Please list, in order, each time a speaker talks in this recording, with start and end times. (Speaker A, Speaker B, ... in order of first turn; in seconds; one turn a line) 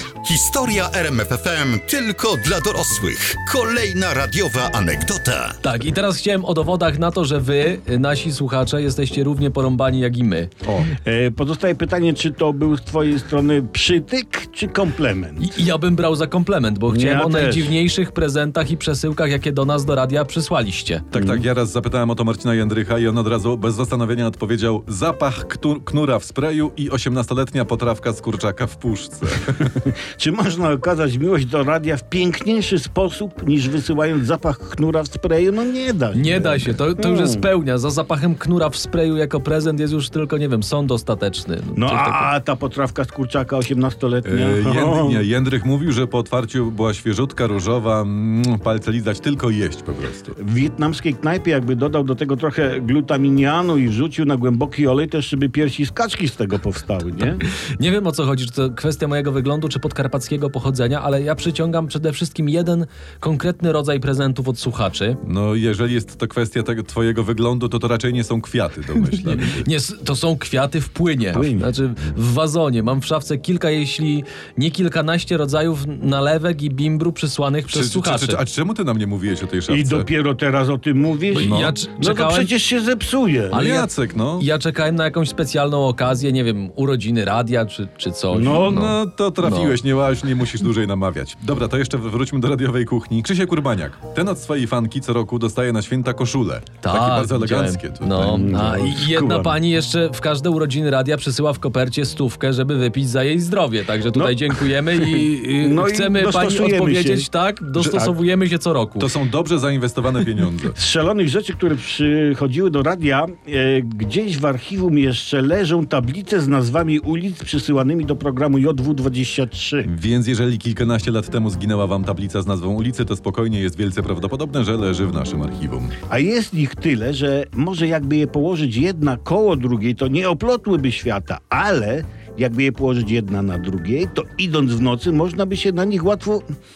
Speaker A: 0.2-5.6
Speaker B: 5.6-10.5
Speaker C: 10.6-10.9
Speaker D: 10.9-15.6
Speaker B: 15.4-21.1
Speaker D: 16.9-17.7
Speaker C: 21.1-29.7
Speaker D: 21.1-21.4
Speaker D: 29.7-37.5
Speaker B: 36.1-42.3
Speaker D: 41.8-45.2
Speaker C: 44.2-50.4
Speaker D: 50.4-57.4
Speaker B: 57.3-65.2
Speaker C: 65.2-69.7
Speaker B: 69.2-78.4
Speaker D: 71.3-71.7
Speaker C: 77.7-80.1
Speaker D: 79.7-83.6
Speaker B: 81.3-82.5
Speaker C: 81.4-81.8
Speaker C: 83.5-84.5
Speaker B: 83.5-89.8
Speaker D: 88.3-89.0
Speaker C: 88.5-98.5
Speaker B: 96.8-109.1
Speaker D: 98.2-99.6
Speaker D: 104.1-108.1
Speaker C: 109.0-110.8
Speaker D: 110.7-119.9
Speaker C: 119.8-126.0
Speaker D: 126.1-136.4